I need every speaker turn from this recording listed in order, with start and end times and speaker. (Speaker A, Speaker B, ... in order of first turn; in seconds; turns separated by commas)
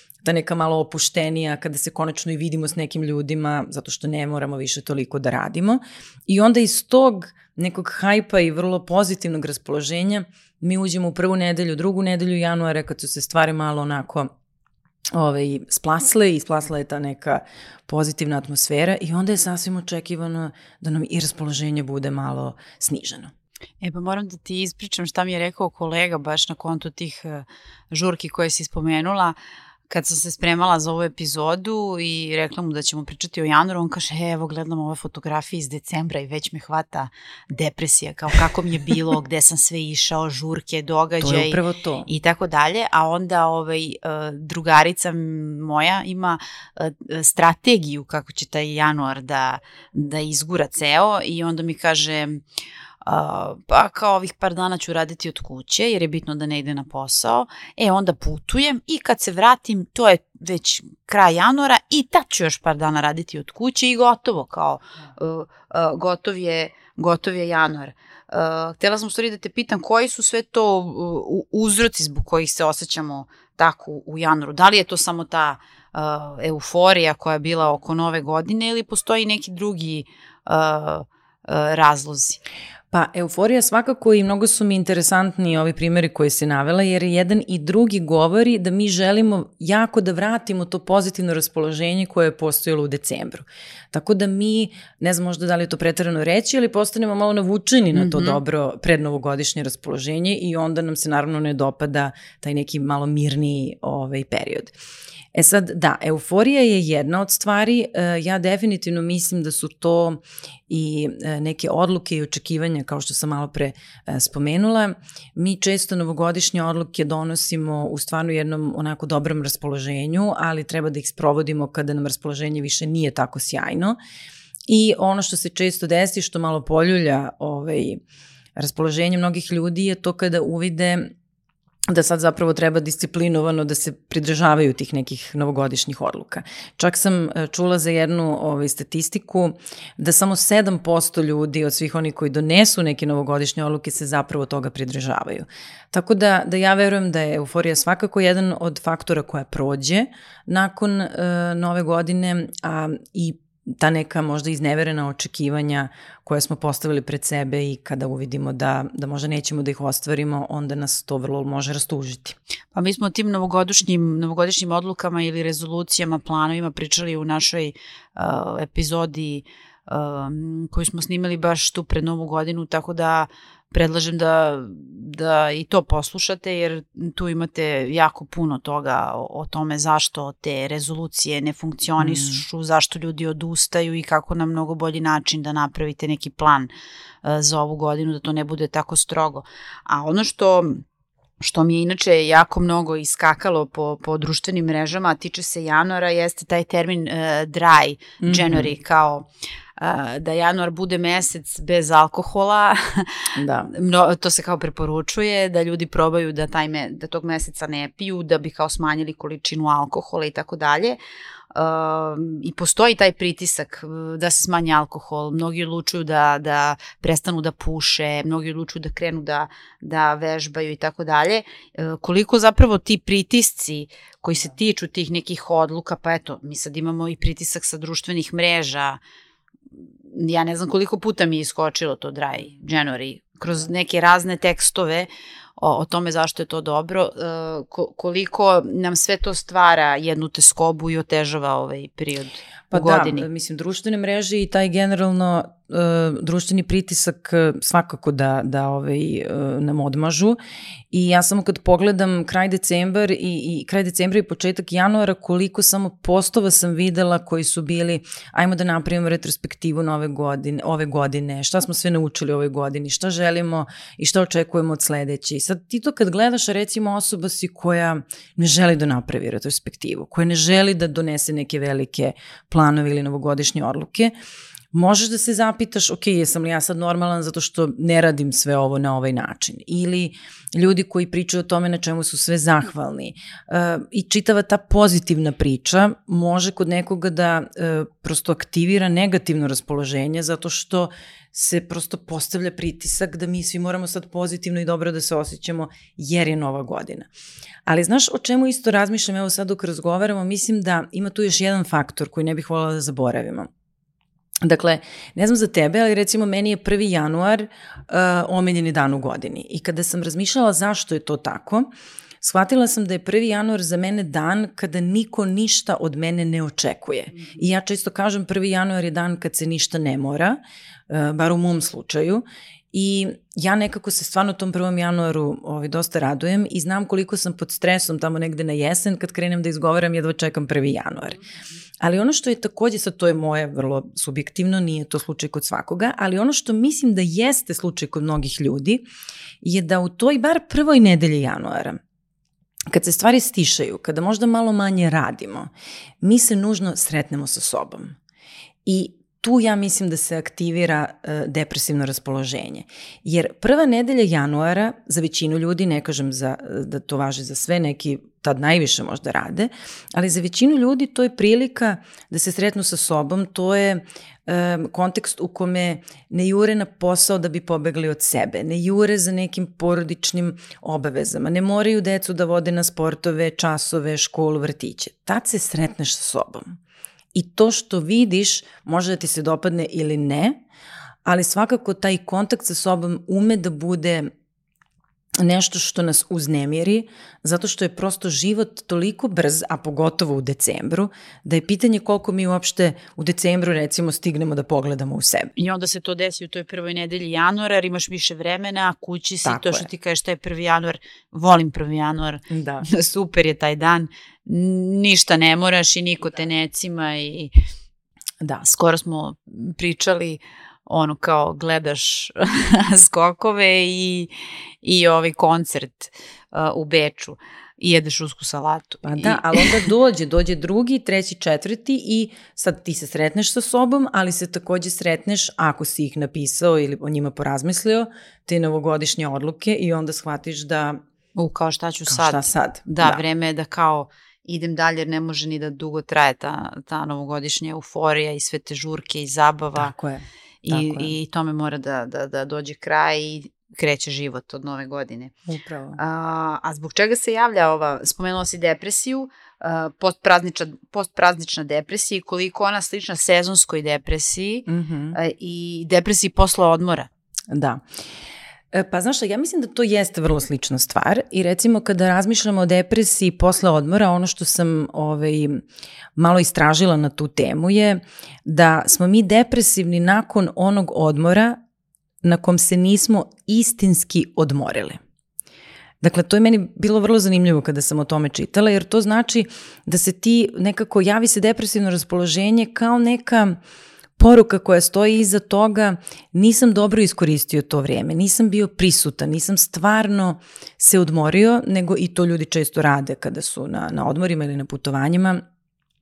Speaker A: 0.2-14.3, Speaker A: 15.1-23.3, Speaker B: 23.8-29.3, Speaker B: 29.9-52.4, Speaker A: 41.2-42.1, Speaker B: 53.0-82.4, Speaker A: 82.9-104.7, Speaker B: 97.9-98.4, Speaker A: 105.3-124.0, Speaker A: 124.7-128.0, Speaker A: 128.6-131.1, Speaker A: 131.9-162.4, Speaker B: 162.7-186.7, Speaker A: 182.0-182.4, Speaker B: 187.2-190.8, Speaker B: 191.4-199.3, Speaker A: 198.2-198.7, Speaker B: 199.8-211.0, Speaker A: 203.3-203.7, Speaker B: 211.5-229.0, Speaker B: 230.1-243.2, Speaker A: 242.7-250.4, Speaker A: 250.9-274.1, Speaker A: 274.7-297.1, Speaker A: 297.6-303.5, Speaker A: 304.4-311.7, Speaker A: 312.2-331.2, Speaker A: 331.8-338.8, Speaker A: 339.4-341.8, Speaker A: 342.7-345.5, Speaker A: 346.0-348.0, Speaker A: 348.6-376.6, Speaker A: 377.1-380.4, Speaker A: 381.0-384.1, Speaker A: 385.2-395.3, Speaker B: 395.4-407.3, Speaker A: 399.2-399.7, Speaker A: 402.3-402.6, Speaker B: 408.4-414.1, Speaker B: 414.6-419.6, Speaker A: 418.8-430.8, Speaker B: 431.1-439.7, Speaker A: 431.9-433.0, Speaker A: 439.6-440.9, Speaker B: 440.4-445.1, Speaker A: 445.3-445.8, Speaker B: 445.8-456.9, Speaker A: 454.5-455.0, Speaker A: 457.3-457.6, Speaker A: 458.5-465.4, Speaker A: 465.9-471.4, Speaker A: 472.0-474.8, Speaker A: 475.8-483.4, Speaker A: 484.0-495.2